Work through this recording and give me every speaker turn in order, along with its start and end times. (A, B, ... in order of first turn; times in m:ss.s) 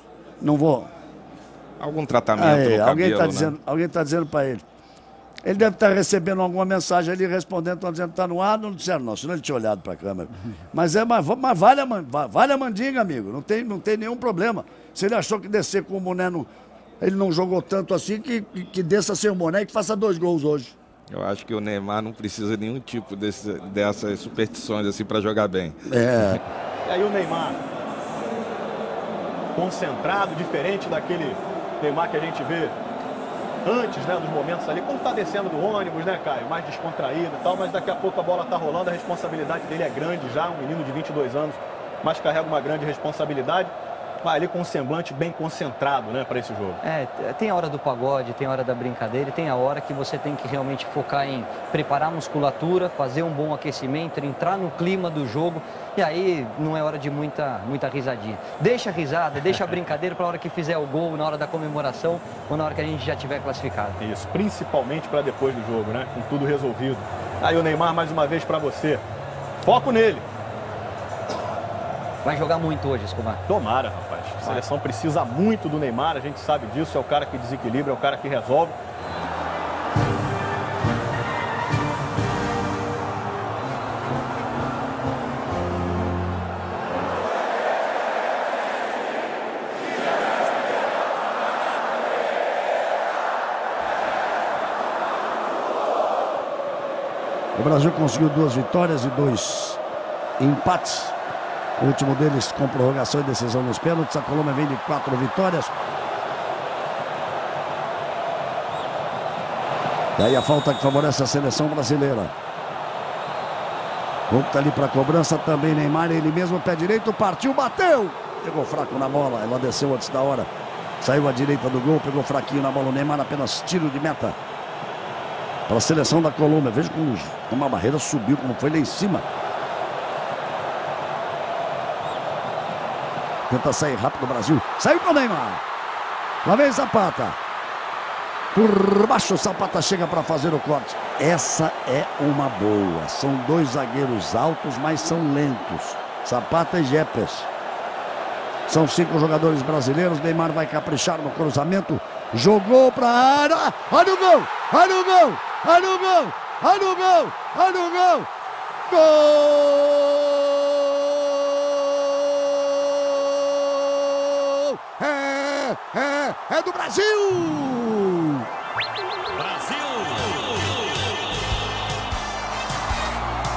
0:00.4-0:00.9 A
0:01.8-0:03.5 B
0:02.4-0:04.6 A
0:05.4-0:16.5 A
0:17.0-0:20.7 A
0:21.1-0:25.8 B
0:25.8-0:26.4 A
0:26.8-0:27.6 C
0:29.6-0:32.8 C
0:33.6-0:43.7 C
0:44.2-0:46.8 C
0:46.8-1:04.0 D
1:04.0-1:09.0 C
1:09.6-1:10.2 C
1:12.2-1:13.4 D
1:13.5-1:18.8 C
1:37.5-1:39.8 A
1:40.4-1:41.2 A
1:41.8-1:45.7 A
1:50.2-1:52.3 A
1:54.3-2:00.5 A
2:01.0-2:04.4 A
2:05.7-2:09.2 A
2:13.5-2:15.6 A
2:16.4-2:17.4 A
2:18.5-2:27.5 A
2:28.7-2:38.3 A
2:38.9-2:48.4 A
2:49.7-2:50.3 B